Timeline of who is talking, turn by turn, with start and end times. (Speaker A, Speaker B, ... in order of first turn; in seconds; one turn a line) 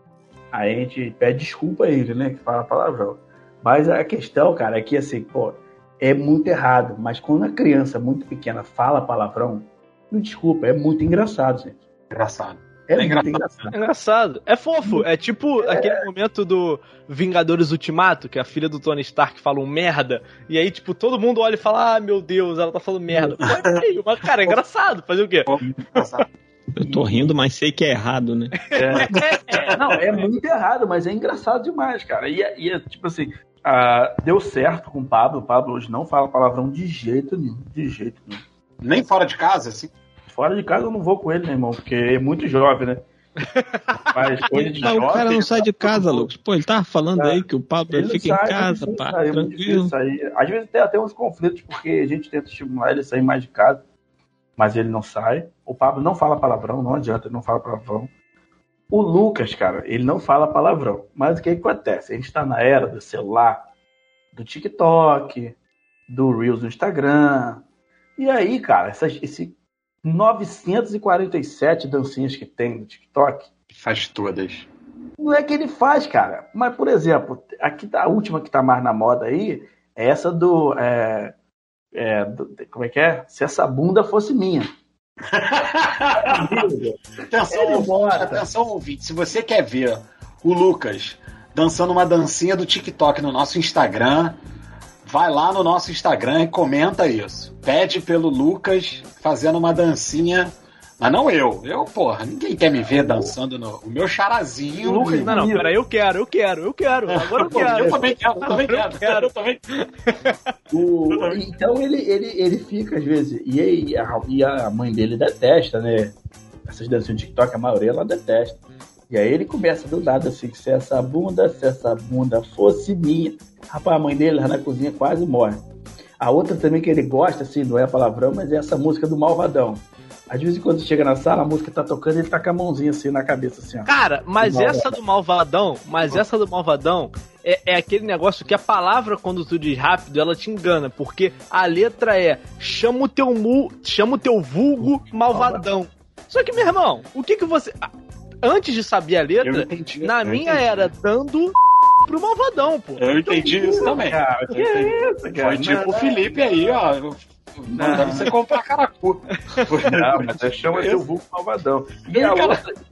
Speaker A: 0.5-11.8
Speaker B: 12.1-13.7
Speaker A: 12.9-13.8
Speaker C: 13.7-26.2
Speaker A: 15.6-16.1
Speaker B: 25.5-26.3
Speaker D: 26.8-28.6
Speaker A: 26.8-27.3
Speaker A: 28.8-29.1
Speaker C: 28.8-29.8
Speaker B: 28.8-29.8
Speaker A: 29.7-38.4
Speaker B: 38.8-39.9
Speaker A: 40.3-43.0
Speaker C: 43.4-44.2
Speaker A: 44.1-46.2
Speaker D: 44.8-49.9
Speaker B: 44.9-45.5
Speaker A: 47.2-53.8
Speaker A: 54.6-58.1
Speaker A: 58.9-63.7
Speaker A: 64.3-65.6
Speaker A: 66.1-67.6
Speaker A: 68.2-73.5
Speaker B: 73.7-74.7
Speaker A: 75.2-81.3
Speaker A: 81.9-84.7
Speaker B: 85.3-86.6
Speaker A: 86.2-87.0
Speaker B: 87.3-94.4
Speaker A: 87.5-88.5
Speaker B: 95.0-105.3
Speaker A: 102.8-103.3
Speaker A: 104.8-105.7
Speaker C: 105.1-110.3
Speaker B: 107.1-109.6
Speaker A: 107.4-108.1
Speaker A: 110.7-125.6
Speaker B: 111.1-111.4
Speaker A: 126.2-135.0
Speaker C: 133.9-147.8
Speaker A: 145.3-145.7
Speaker C: 148.4-151.6
Speaker B: 149.4-150.9
Speaker C: 152.1-153.0
Speaker B: 153.0-161.0
Speaker A: 153.2-156.2
Speaker A: 157.7-158.3
Speaker C: 157.9-158.2
Speaker A: 159.9-162.7
Speaker B: 162.1-162.6